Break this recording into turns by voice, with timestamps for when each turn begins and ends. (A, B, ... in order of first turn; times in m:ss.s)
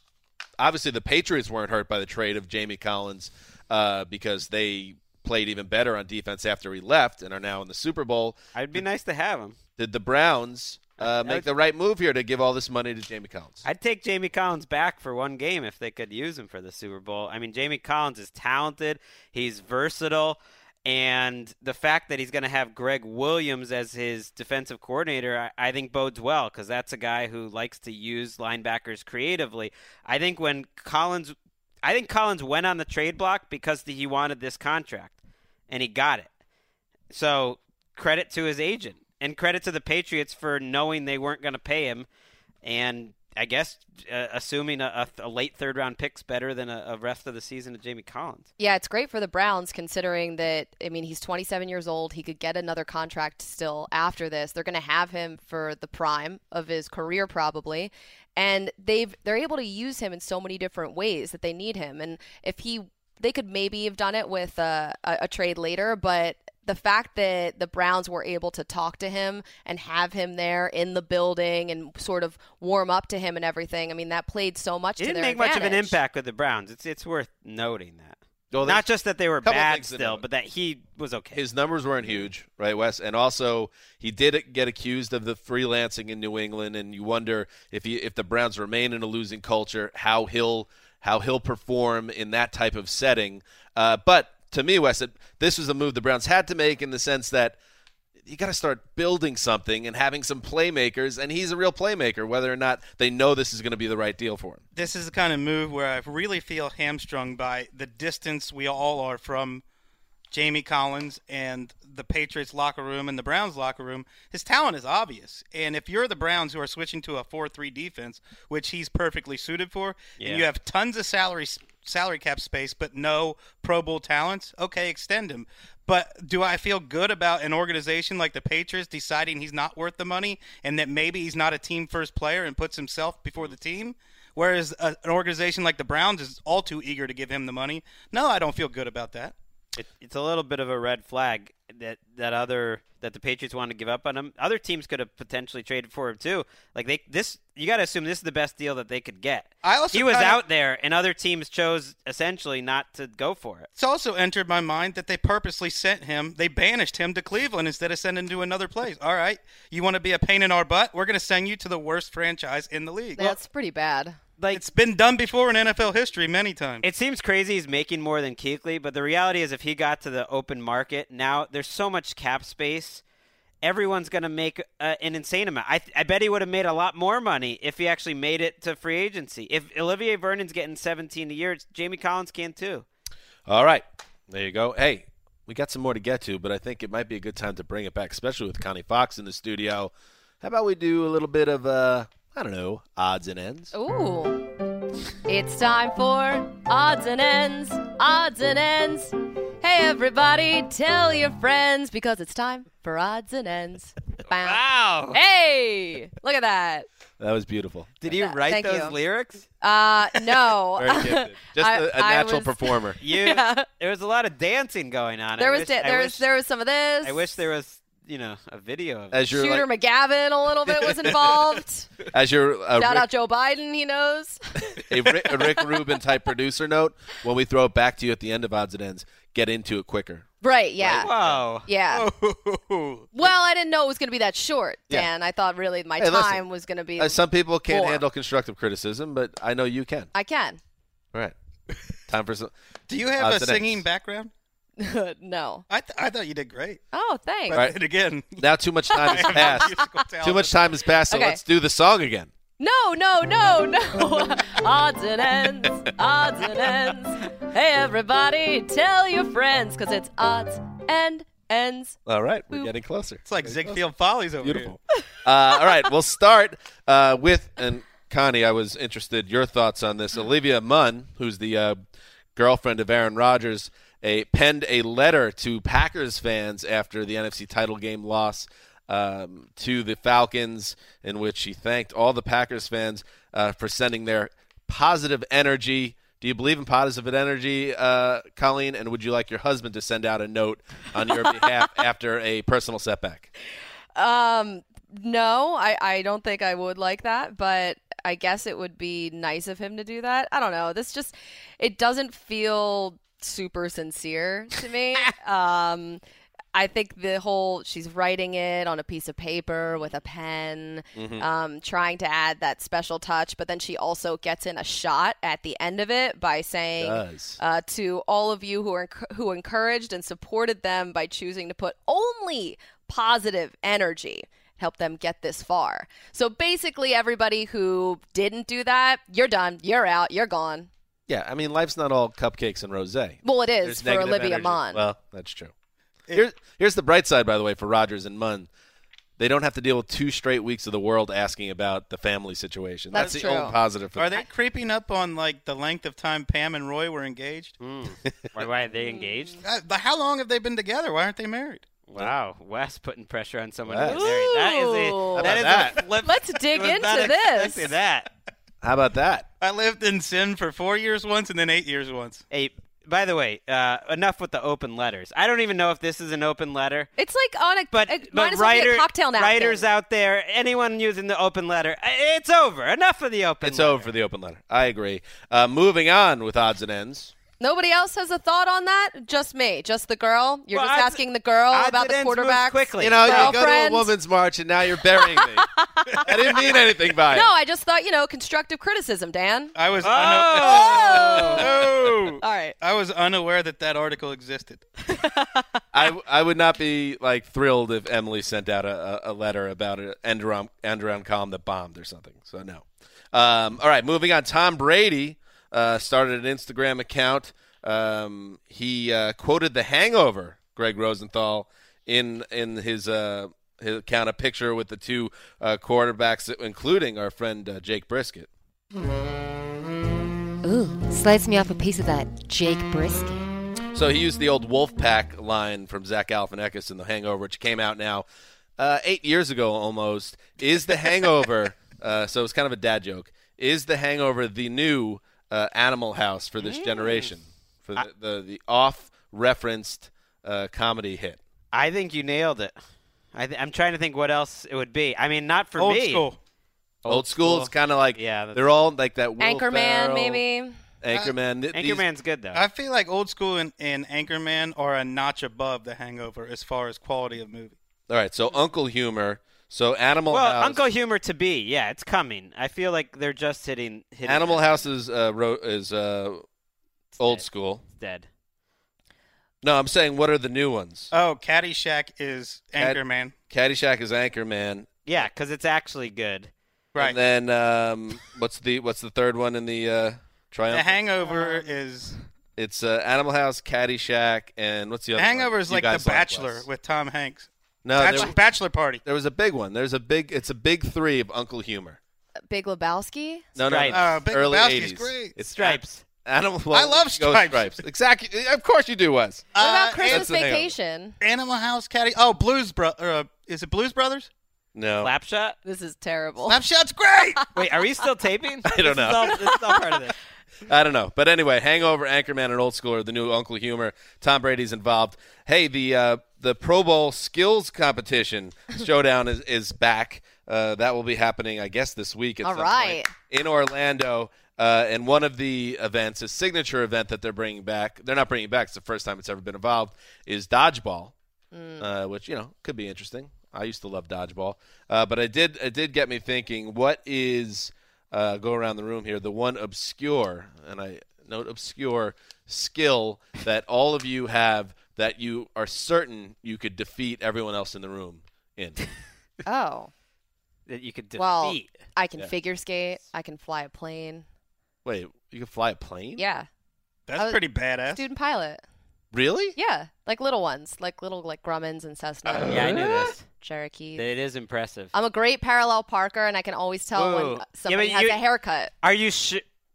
0:00.6-0:08.4 A
0:08.5-0:09.6 B
0:09.8-0:13.6 A
0:11.0-0:11.4 B
0:13.6-0:35.2 B
0:35.7-0:36.3 B
0:37.1-0:42.1 B
0:42.6-0:48.5 B
0:48.6-1:16.0 C
1:15.0-1:21.4 B
1:18.5-1:18.8 A
1:19.4-1:20.2 A
1:21.3-1:37.6 A
1:38.2-1:44.6 A
1:44.7-1:49.6 D
1:50.3-2:19.3 D
2:00.2-2:00.5 B
2:19.8-2:33.7 B
2:29.6-2:30.4 D
2:33.8-2:43.3 D
2:43.2-2:44.2 C
2:44.4-2:44.6 B
2:44.5-2:46.8 D
2:46.8-2:53.0 B
2:53.6-3:02.8 B
3:03.5-3:09.9 A
3:10.4-3:13.7 A
3:13.7-3:14.4 C
3:15.3-3:26.9 C
3:24.4-3:25.2 B
3:27.2-3:27.9 A
3:28.0-3:29.5 B
3:28.1-3:29.0 C
3:29.6-3:33.6 C
3:30.8-3:33.0 A
3:33.0-3:36.2 B
3:35.4-3:37.3 C
3:37.0-3:39.3 B
3:39.1-3:39.6 A
3:39.3-3:41.9 C
3:42.1-3:43.0 A
3:42.8-3:45.6 C
3:44.8-3:50.3 A
3:50.4-3:51.1 C
3:50.8-3:51.4 A
3:50.9-3:51.7 B
3:51.6-3:52.1 C
3:51.9-3:53.1 D
3:53.1-3:58.0 C
3:56.0-3:56.4 A
3:57.0-4:00.1 A
4:00.1-4:00.6 C
4:02.1-4:02.5 A
4:02.9-4:04.3 D
4:03.2-4:03.8 A
4:04.8-4:05.6 C
4:05.7-4:06.8 D
4:06.9-4:07.6 C
4:07.5-4:08.4 D
4:08.4-4:12.3 A
4:08.9-4:09.6 C
4:09.1-4:10.5 D
4:11.1-4:11.4 C
4:12.6-4:22.0 C
4:22.1-4:23.8 A
4:23.2-4:24.8 D
4:24.4-4:31.8 A
4:32.4-4:53.3 A
4:54.0-5:06.0 C
5:06.5-5:30.7 C
5:10.9-5:11.2 A
5:16.8-5:17.4 A
5:31.1-5:35.5 A
5:33.2-5:34.8 C
5:36.1-5:38.5 A
5:39.2-5:44.2 A
5:42.9-5:43.6 C
5:44.0-5:47.6 D
5:47.6-5:49.4 B
5:48.8-5:49.3 C
5:49.4-5:51.6 D
5:51.9-5:58.1 B
5:53.7-5:54.0 A
5:53.8-5:55.4 C
5:55.2-5:55.8 A
5:56.0-5:57.7 C
5:58.6-5:59.3 A
5:59.4-6:02.2 D
6:02.3-6:06.9 B
6:07.0-6:09.6 C
6:07.7-6:13.9 B
6:13.4-6:17.1 A
6:17.4-6:23.9 C
6:20.5-6:23.4 B
6:22.8-6:25.5 A
6:25.2-6:26.1 C
6:26.0-6:27.3 A
6:27.1-6:29.5 C
6:29.5-6:34.6 D
6:29.8-6:31.5 B
6:30.3-6:31.5 C
6:32.2-6:32.5 C
6:34.9-6:35.4 C
6:35.7-6:58.3 A
7:00.4-7:03.3 E
7:03.7-7:08.0 A
7:08.6-7:21.2 A
7:16.4-7:17.1 B
7:21.5-7:22.5 B
7:23.1-7:26.1 B
7:25.6-7:26.2 D
7:26.8-7:28.4 B
7:26.9-7:30.2 A
7:29.2-7:30.6 C
7:30.8-7:31.8 A
7:31.5-7:32.4 B
7:32.3-7:37.6 D
7:37.9-7:40.6 A
7:40.1-7:44.7 B
7:44.0-7:46.2 A
7:47.0-7:48.1 B
7:47.0-7:47.6 A
7:49.4-7:50.9 A
7:50.9-7:53.1 D
7:52.6-7:54.7 A
7:54.9-7:56.3 B
7:56.8-8:00.8 A
8:00.5-8:01.9 D
8:01.1-8:01.5 C
8:02.4-8:06.4 A
8:05.0-8:08.8 D
8:07.6-8:08.2 A
8:08.8-8:11.8 A
8:12.3-8:13.3 C
8:13.4-8:19.3 A
8:13.4-8:13.8 B
8:13.7-8:15.1 D
8:15.3-8:15.8 B
8:16.5-8:17.6 D
8:19.3-8:20.1 D
8:19.4-8:21.0 C
8:19.9-8:20.5 A
8:21.0-8:24.1 D
8:24.5-8:24.9 A
8:24.8-8:25.4 B
8:25.4-8:26.4 C
8:26.2-8:27.2 D
8:27.3-8:30.0 B
8:28.4-8:29.2 A
8:30.5-8:50.9 A
8:42.2-8:42.9 C
8:51.3-8:51.7 C
8:51.6-9:08.6 A
9:09.2-9:09.7 C
9:10.5-9:11.6 B
9:11.0-9:14.0 C
9:14.6-9:16.0 A
9:16.0-9:16.3 C
9:16.9-9:17.8 D
9:17.0-9:18.4 C
9:18.9-9:19.4 A
9:19.3-9:23.8 C
9:22.1-9:22.9 A
9:22.3-9:23.0 B
9:23.8-9:24.7 B
9:24.7-9:28.5 C
9:26.7-9:28.0 B
9:28.6-9:29.2 B